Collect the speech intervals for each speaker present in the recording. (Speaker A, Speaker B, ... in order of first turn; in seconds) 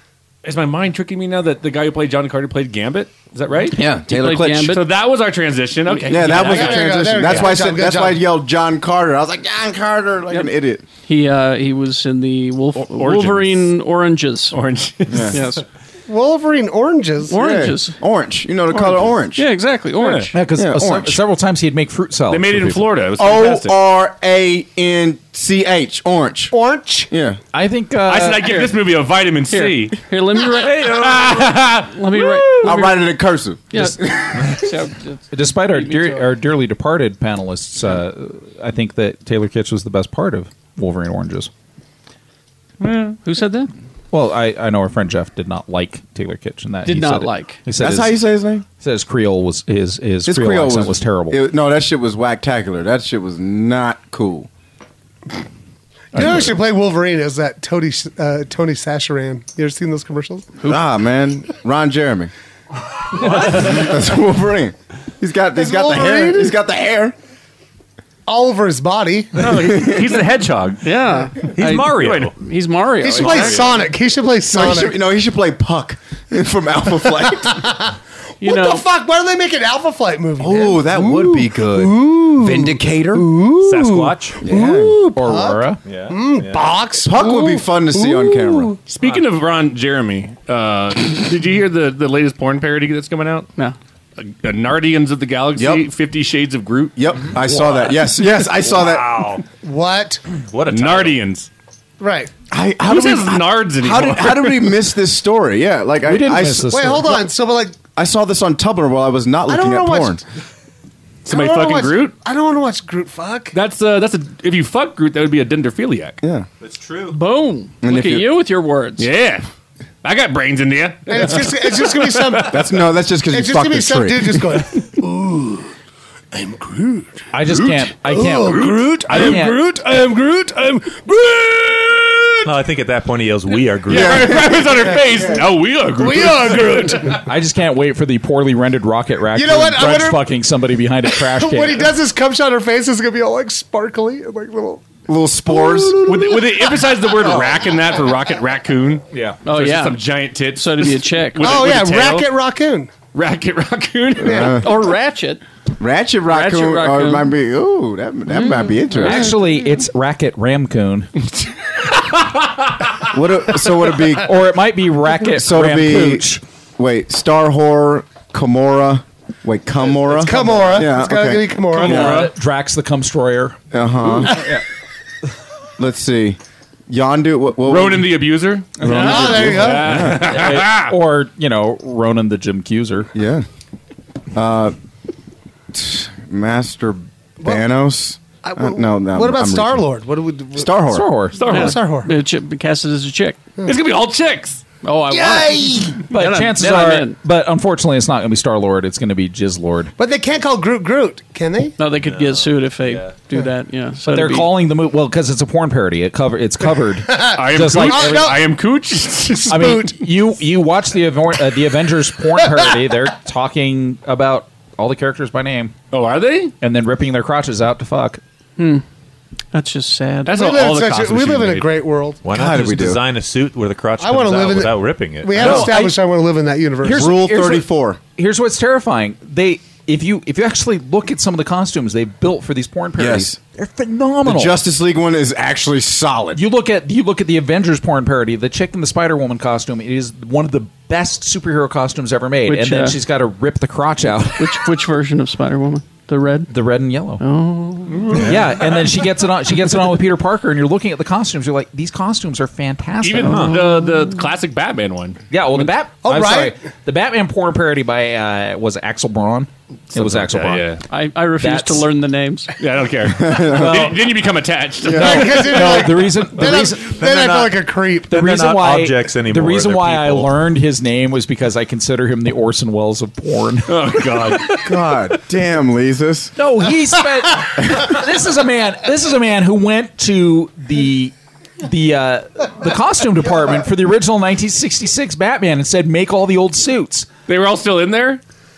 Speaker A: 0.4-3.9, 4.6-7.5, 12.8-13.7, 14.5-15.5, 20.0-20.3, 22.3-23.7, 28.0-32.8, 42.8-43.2, 69.4-70.8, 71.4-72.3, 73.1-73.9, 88.9-93.5, 94.2-97.8, 98.6-98.9, 100.7-101.5, 102.8-104.8, 111.2-112.1, 113.5-116.2, 119.0-119.4, 120.0-122.4, 133.9-137.2, 146.0-152.3, 153.1-154.6, 161.9-163.1, 171.7-172.3, 177.6-180.9, 191.3-191.8, 193.6-194.6, 207.3-209.7, 215.9-216.5, 220.2-221.8, 225.4-225.7, 247.9-248.8, 253.0-255.6, 259.9-260.8, 262.6-265.7, 273.6-274.9, 287.3-288.2
Speaker B: 3.7-4.8, 6.1-10.8, 15.1-15.4, 17.3-19.5, 20.5-21.2, 23.2-26.5, 27.1-27.4, 32.6-34.6, 47.8-48.6, 50.2-54.5, 60.6-62.3, 63.1-67.1, 69.6-70.0, 74.5-77.6, 80.4-83.3, 84.4-85.0, 87.0-88.7, 95.5-95.9, 97.0-99.4, 102.5-106.9, 108.0-110.2, 116.2-116.5, 117.8-118.3, 122.5-124.6, 133.9-135.4, 145.1-146.4, 147.2-147.7, 154.2-154.7, 155.8-159.3, 163.1-164.4, 165.2-166.3, 166.8-171.6, 173.7-174.4, 175.8-178.1, 178.8-180.4, 183.1-183.4, 184.3-184.8, 185.7-189.9, 190.6-191.1, 222.3-223.0, 226.8-228.0, 233.0-233.4, 234.2-236.4, 263.2-264.0, 264.8-265.4, 274.6-276.3
Speaker C: 4.1-4.8, 5.9-6.4, 11.0-14.6, 15.3-15.6, 17.3-18.0, 18.7-20.3, 28.4-28.7, 29.5-33.1, 33.7-36.3, 43.2-43.7, 46.8-47.6, 70.8-73.7, 78.4-78.8, 117.1-119.1, 149.4-151.5, 154.5-155.4, 156.3-157.3, 158.3-158.9, 191.5-193.4, 194.8-197.2, 201.8-204.5, 218.6-218.8, 219.5-220.3, 242.4-243.0, 244.4-246.5, 247.2-248.2, 260.9-262.5
Speaker D: 6.4-8.2, 16.1-17.4, 26.5-27.1, 56.1-60.5, 65.5-66.5, 68.2-69.5, 73.0-75.0, 77.2-88.8, 99.5-100.2, 102.0-102.3, 106.7-107.8, 109.5-110.2, 111.3-113.5, 121.1-122.7, 123.3-125.7, 126.3-132.5, 134.6-137.3, 139.3-140.3, 141.1-144.9, 145.5-147.1, 151.4-152.9, 154.3-154.6, 170.1-172.2, 178.8-180.0, 188.4-190.8, 191.4-192.1, 195.1-196.1, 200.0-201.7, 207.1-208.6, 209.5-210.1, 220.3-222.2, 224.0-227.1, 256.0-256.5, 264.9-268.2
Speaker E: 20.3-22.9, 27.5-28.6, 35.3-41.5, 44.1-48.2, 48.8-51.4, 56.1-56.5, 85.2-85.8, 106.0-107.2, 127.3-129.6, 137.2-141.9, 159.0-161.1, 164.2-166.4, 171.8-173.6, 174.2-174.6, 178.9-183.1, 190.9-191.4, 196.1-199.9, 204.1-208.4, 209.5-215.7, 216.6-218.2, 225.4-225.9, 226.8-234.6, 236.3-244.7, 246.5-247.2, 248.1-253.6, 255.3-260.8, 261.4-261.9, 263.5-263.9, 264.9-267.5, 268.1-274.4, 276.4-287.1
Speaker F: 71.6-72.3, 83.6-84.3, 85.8-86.7, 98.8-99.3, 100.5-101.2, 116.6-117.2, 132.4-134.3, 202.0-203.1, 222.2-225.8, 268.1-270.3